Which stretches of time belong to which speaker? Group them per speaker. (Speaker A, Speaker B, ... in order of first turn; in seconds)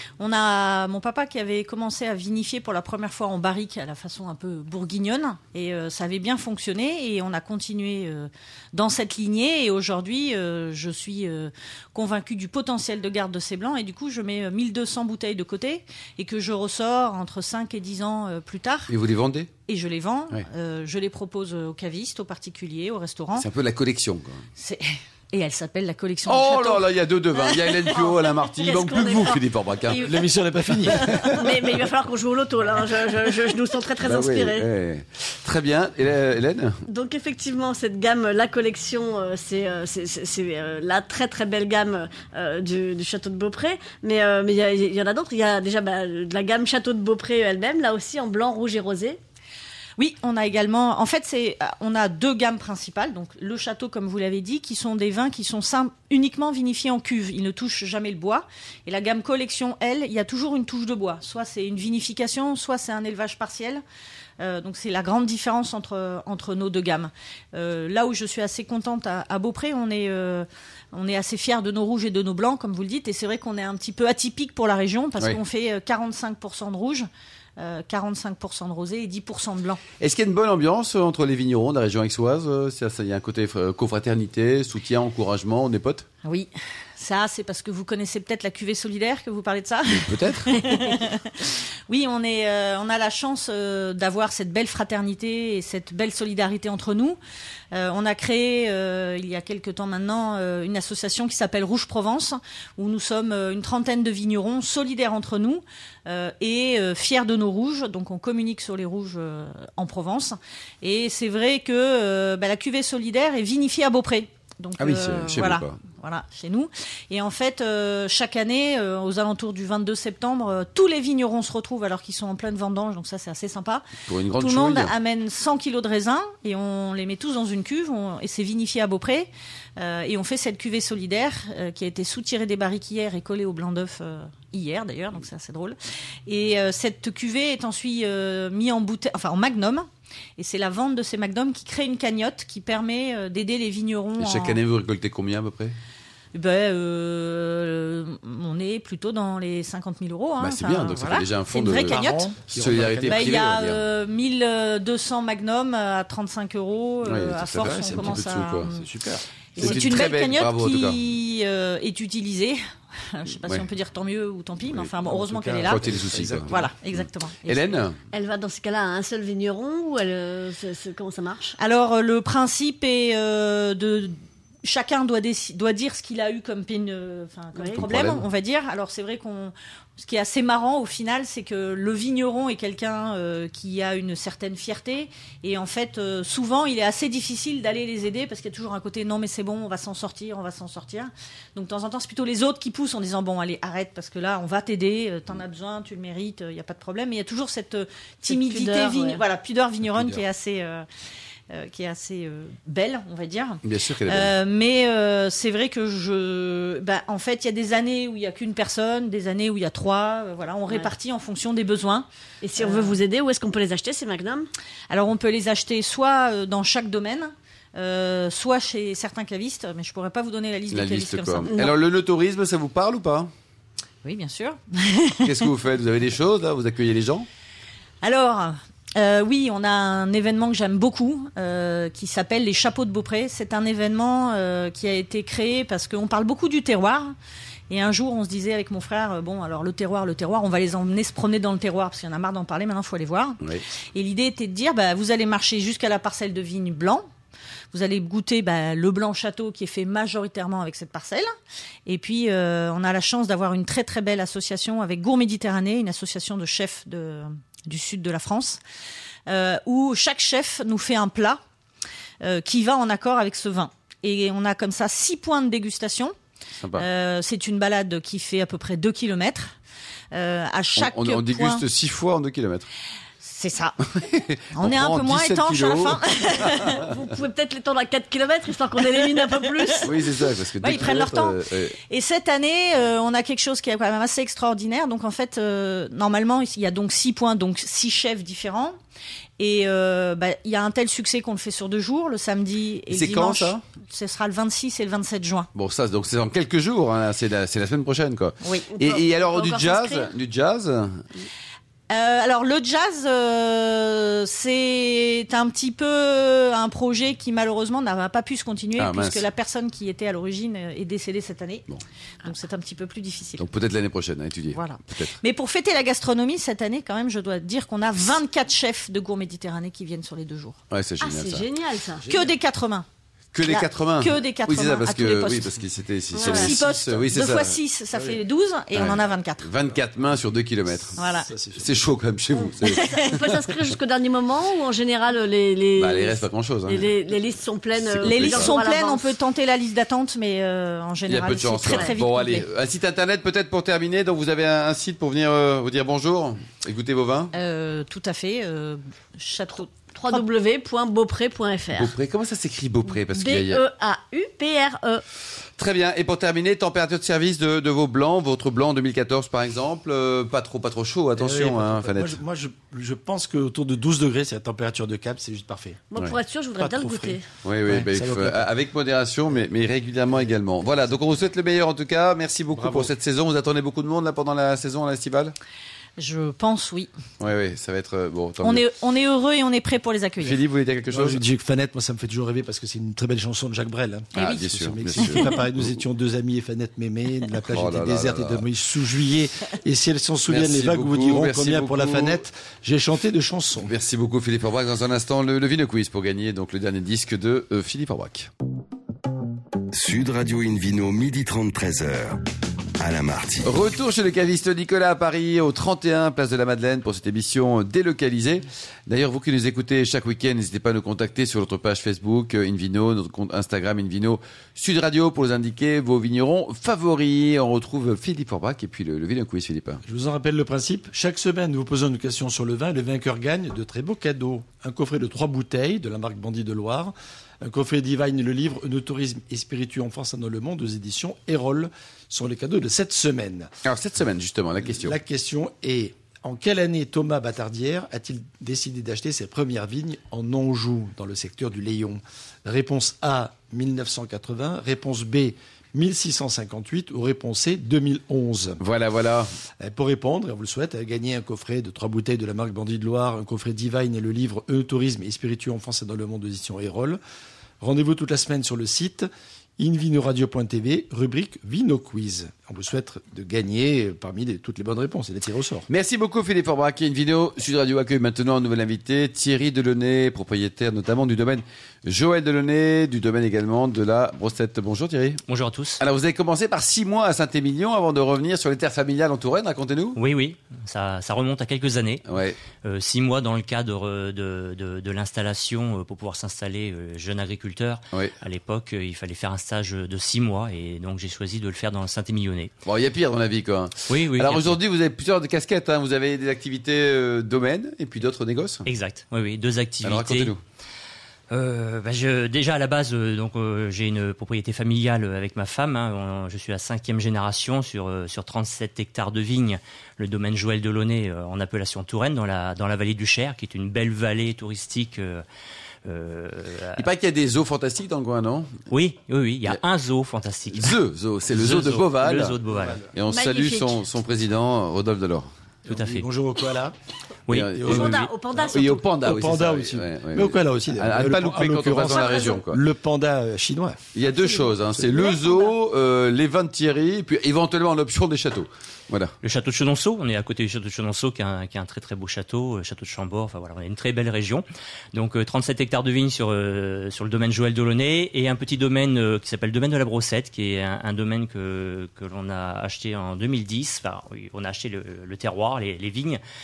Speaker A: 0.2-18.9, 19.6-23.5, 24.6-27.8, 50.0-63.8, 64.4-77.1, 77.6-79.8, 86.2-97.2, 97.7-135.8, 136.3-144.6, 146.3-152.3, 153.1-158.8, 159.6-165.9, 166.4-167.7, 171.6-200.8, 201.5-212.1, 212.6-213.0, 214.9-221.7, 224.0-225.5, 228.0-237.1, 237.7-243.4, 243.9-247.1, 247.7-251.3, 251.8-258.6, 259.3-261.4, 262.2-266.1, 266.7-269.5, 270.1-271.6, 273.2-273.8, 274.5-276.8, 280.6-288.8, 289.4-295.5, 298.4-298.7, 301.9-311.6, 312.2-313.5, 314.5-320.6, 322.1-322.9, 323.4-325.5, 326.1-329.5, 331.0-331.3, 332.6-333.1, 338.0-342.4, 347.3-350.2, 376.0-376.9, 378.4-380.4
Speaker B: 18.9-19.5, 23.4-24.4, 26.2-30.0, 30.9-31.4, 34.0-36.8, 80.0-86.0, 89.9-90.8, 114.8-115.8, 124.0-124.9, 144.2-145.7, 150.4-153.8, 157.0-158.7, 159.6-161.0, 165.7-166.6, 167.4-167.9, 177.7-178.2, 203.6-204.3, 220.7-223.3, 225.2-227.2, 266.6-266.9, 270.8-272.7, 273.9-276.8, 279.8-281.8, 292.9-293.6, 295.5-301.0, 308.8-309.2, 313.4-315.1, 320.7-321.5, 323.3-327.6, 328.7-331.0, 331.6-333.5, 335.8-336.9, 337.8-338.5, 341.1-347.3, 351.7-353.6, 355.6-362.2, 367.4-375.3, 377.2-378.6, 380.2-381.2, 384.1-385.6, 387.4-388.4, 390.3-392.2, 393.6-398.3, 403.4-419.8, 433.6-434.9, 448.6-449.3, 465.7-475.2, 475.8-480.0, 482.1-482.4, 492.6-498.7, 499.8-500.4, 516.8-518.6, 520.5-522.4, 522.9-525.3, 527.3-532.6, 533.9-539.1
Speaker C: 27.9-30.2, 30.9-34.6, 36.9-49.2, 168.1-171.5, 177.6-177.8, 198.3-199.2, 212.4-214.5, 276.7-280.0, 298.7-300.1, 321.0-322.0, 326.1-326.6, 332.3-339.1, 349.9-351.9, 353.1-355.0, 365.9-367.3, 523.1-523.8, 527.6-528.9, 531.8-532.4, 534.1-535.5
Speaker D: 30.0-31.4, 151.7-153.5, 157.6-159.7, 164.8-166.7, 322.0-322.3, 331.1-331.9, 361.1-365.9, 366.6-368.5, 372.5-372.9, 380.9-393.7, 419.8-433.5, 434.6-448.6, 449.6-457.0, 457.6-465.6, 522.5-522.9, 525.7-526.7, 527.4-533.9
Speaker E: 399.7-402.2, 402.8-403.5
Speaker F: 475.3-475.8, 479.9-482.1, 482.6-492.5, 493.9-494.6, 498.6-500.3, 501.3-515.2, 515.8-516.9, 518.7-520.8, 521.3-522.8, 525.7-526.0, 527.3-528.0, 539.2-556.2